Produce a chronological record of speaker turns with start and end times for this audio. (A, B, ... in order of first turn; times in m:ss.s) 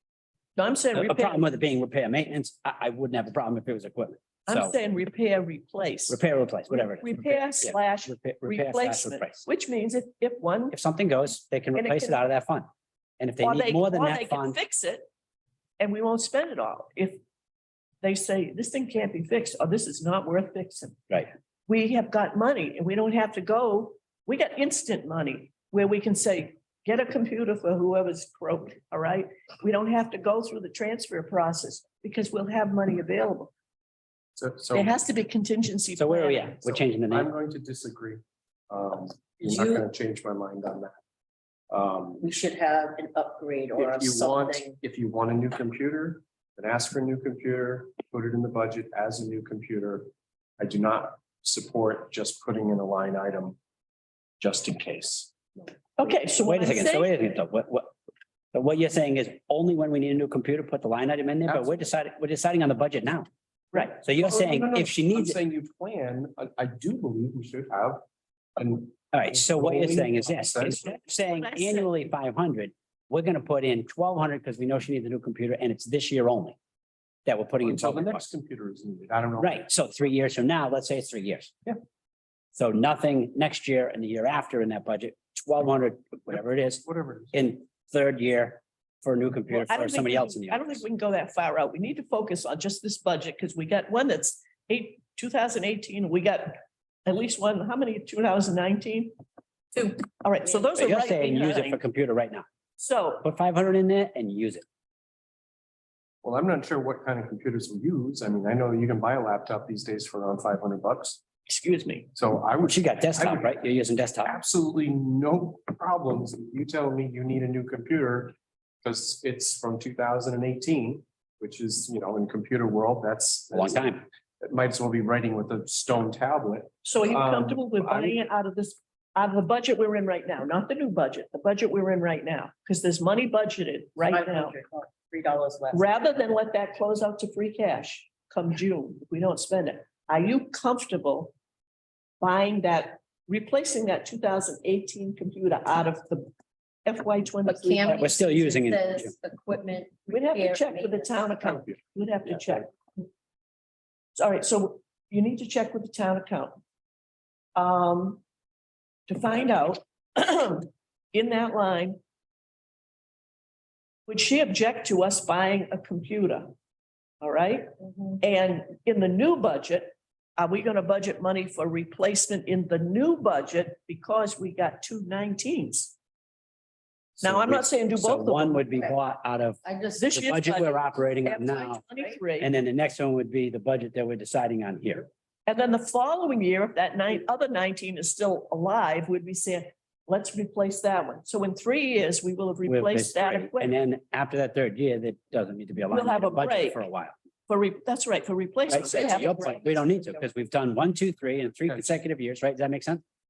0:00.6-0:01.4 A
0:00.9-0:04.7 B
0:04.5-0:10.7 A
0:06.1-0:09.4 B
0:10.7-0:12.7 B
0:11.7-0:12.2 A
0:13.2-0:14.6 B
0:13.4-0:15.1 A
0:15.8-0:17.2 A
0:18.0-0:33.5 A
0:34.4-0:35.0 C
0:34.7-0:36.8 A
0:36.0-0:37.3 B
0:37.1-0:41.0 C
0:39.4-0:39.8 D
0:41.7-0:42.2 C
0:42.2-0:44.8 D
0:43.7-0:53.6 C
0:54.4-0:55.7 C
0:56.0-0:57.1 A
0:56.4-0:57.9 B
0:58.5-1:03.3 B
1:01.5-1:01.8 C
1:03.7-1:04.0 A
1:04.0-1:05.4 B
1:04.1-1:08.0 C
1:08.6-1:11.0 C
1:09.1-1:16.6 B
1:11.2-1:12.0 A
1:17.2-1:18.3 B
1:17.6-1:19.6 C
1:19.4-1:21.6 B
1:22.6-1:30.8 B
1:26.8-1:27.4 C
1:29.5-1:39.1 A
1:39.7-1:41.8 A
1:40.7-1:42.4 B
1:42.8-1:43.2 A
1:43.2-1:44.6 B
1:46.2-1:51.2 C
1:51.4-1:52.1 A
1:52.1-1:53.6 C
1:52.6-1:54.4 B
1:54.2-2:08.2 C
2:03.5-2:04.0 B
2:06.8-2:14.6 A
2:14.0-2:15.8 D
2:15.7-2:21.3 A
2:22.2-2:26.3 A
2:26.8-2:28.2 A
2:27.4-2:31.6 D
2:28.0-2:29.1 B
2:30.1-2:33.0 A
2:34.2-2:36.6 A
2:37.6-2:38.2 A
2:39.1-2:42.0 A
2:44.1-2:46.5 A
2:47.2-2:55.9 A
2:57.2-3:01.8 B
2:57.2-2:58.6 A
2:58.6-2:59.0 D
2:59.6-3:00.2 D
3:00.0-3:02.5 A
3:02.4-3:05.1 B
3:05.5-3:13.7 A
3:12.6-3:17.1 B
3:15.9-3:16.8 A
3:17.5-3:19.5 A
3:18.7-3:23.0 B
3:18.9-3:20.2 D
3:21.7-3:21.9 C